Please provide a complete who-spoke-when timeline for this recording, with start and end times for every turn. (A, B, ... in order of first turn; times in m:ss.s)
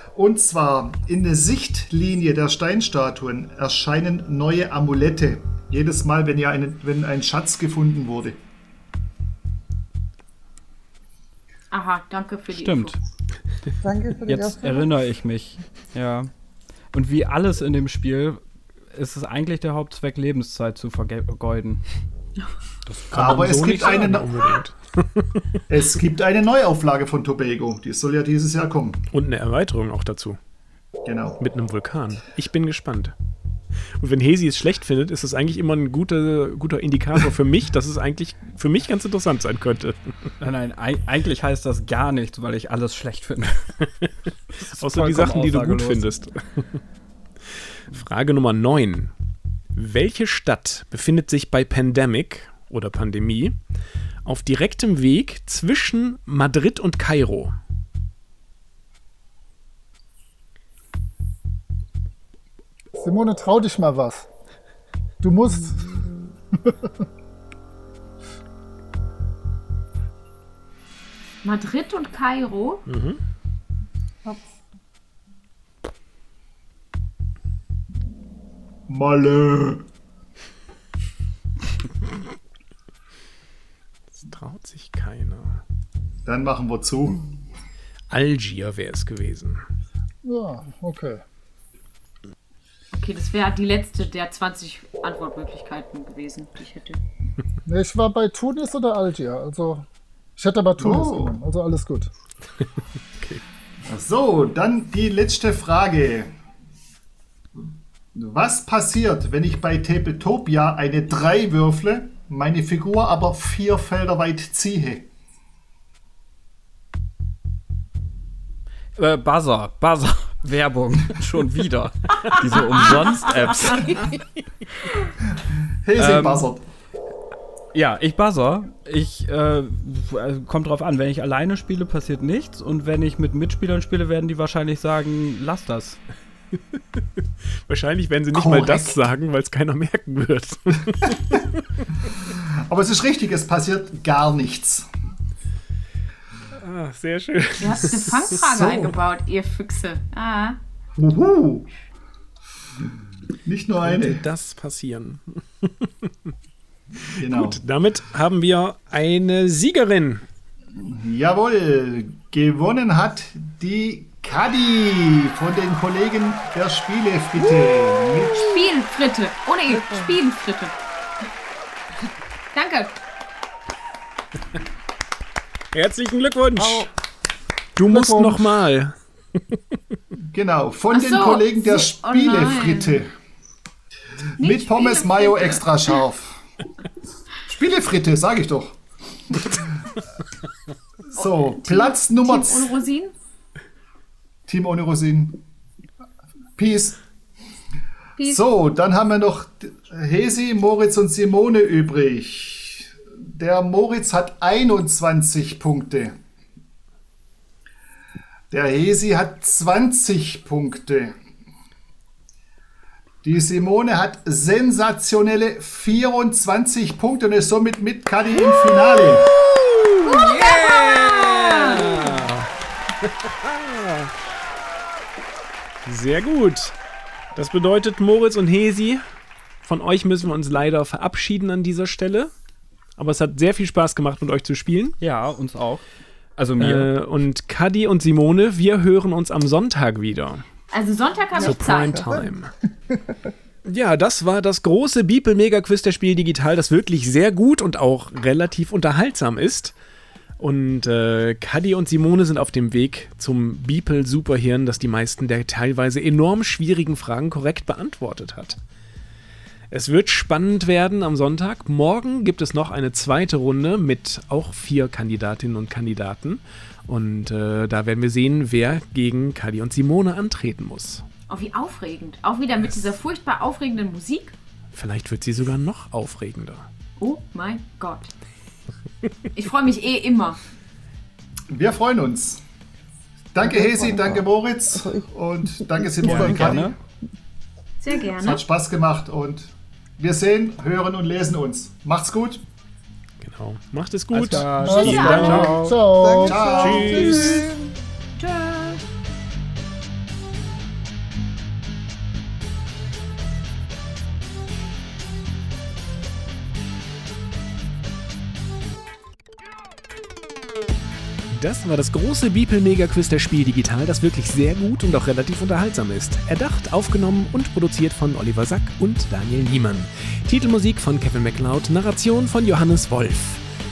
0:00.1-0:08.4 A
0:11.7-0:13.0 B
0:12.5-0:13.0 C
0:13.8-0:14.9 D
0:14.3-0:16.3 C
0:16.9-0:18.4 C
0:18.9-0:21.8 C
0:22.9-0:25.6 E
0:23.1-0:24.4 A
0:25.7-0:29.0 A
0:29.1-0:30.4 E
0:31.0-0:31.4 A
0:31.4-0:33.1 E
0:34.0-0:40.1 E
0:40.4-0:43.7 C
0:44.6-0:46.1 C
0:44.7-0:46.8 E
0:47.9-0:49.1 E
0:49.8-0:53.6 E
0:54.2-0:57.5 E
1:03.0-1:04.3 F
1:05.2-1:05.9 F
1:11.4-1:12.8 B
1:12.8-1:13.2 E
1:18.9-1:19.8 A
1:24.2-1:25.6 E
1:26.2-1:27.2 A
1:28.1-1:29.6 E
1:30.2-1:31.2 F
1:32.9-1:37.0 B
1:37.6-1:39.8 F
1:40.4-1:42.1 F
1:40.8-1:41.3 A
1:43.8-1:46.3 A
1:48.1-1:55.1 A
1:59.0-2:04.1 C
2:05.8-2:06.6 A
2:06.0-2:06.5 C
2:07.7-2:16.0 C
2:17.6-2:21.6 E
2:18.3-2:19.0 A
2:22.2-2:24.9 A
2:26.5-2:28.4 E
2:27.6-2:30.6 B
2:28.3-2:28.9 A
2:31.0-2:31.7 A
2:33.4-2:34.2 A
2:33.8-2:36.3 E
2:37.0-2:37.6 A
2:37.2-2:40.2 E
2:40.7-2:48.7 A
2:48.3-2:48.6 E
2:48.5-2:50.7 B
2:49.7-2:50.1 D
2:52.5-2:52.9 B
2:55.7-2:56.9 E
2:56.6-2:56.9 D
2:57.8-2:59.6 E
2:57.8-2:58.5 F
3:00.3-3:03.1 A
3:00.9-3:03.0 B
3:04.4-3:06.4 A
3:04.4-3:06.0 B
3:07.5-3:08.8 A
3:09.3-3:09.7 A
3:11.1-3:12.7 A
3:11.2-3:13.1 B
3:14.5-3:15.4 A
3:16.6-3:17.0 A
3:18.2-3:18.4 B
3:18.2-3:26.2 A
3:28.5-3:31.2 A
3:33.2-3:39.3 A
3:39.3-3:44.1 E
3:40.0-3:42.3 B
3:45.8-3:46.8 E
3:47.3-3:49.0 E
3:49.6-3:52.3 E
3:53.0-3:55.0 E
3:55.0-3:55.8 C
3:56.4-3:56.9 C
3:56.6-4:00.4 E
4:00.7-4:02.1 B
4:01.3-4:02.4 D
4:01.4-4:02.5 E
4:03.6-4:09.7 E
4:10.4-4:18.6 E
4:19.7-4:31.0 E
4:31.3-4:34.3 B
4:34.7-4:36.6 E
4:37.0-4:38.1 B
4:39.4-4:40.4 B
4:41.5-4:42.4 A
4:43.3-4:46.7 A
4:43.4-4:46.5 D
4:46.0-4:46.7 C
4:47.8-4:48.4 B
4:48.2-4:52.4 A
4:53.2-4:55.6 E
4:54.1-4:55.8 C
4:54.6-4:56.6 F
4:54.8-4:55.4 B
4:55.8-4:57.7 D
4:56.2-4:57.3 A
4:56.6-4:57.5 E
4:58.2-4:58.8 B
5:11.3-5:23.4 E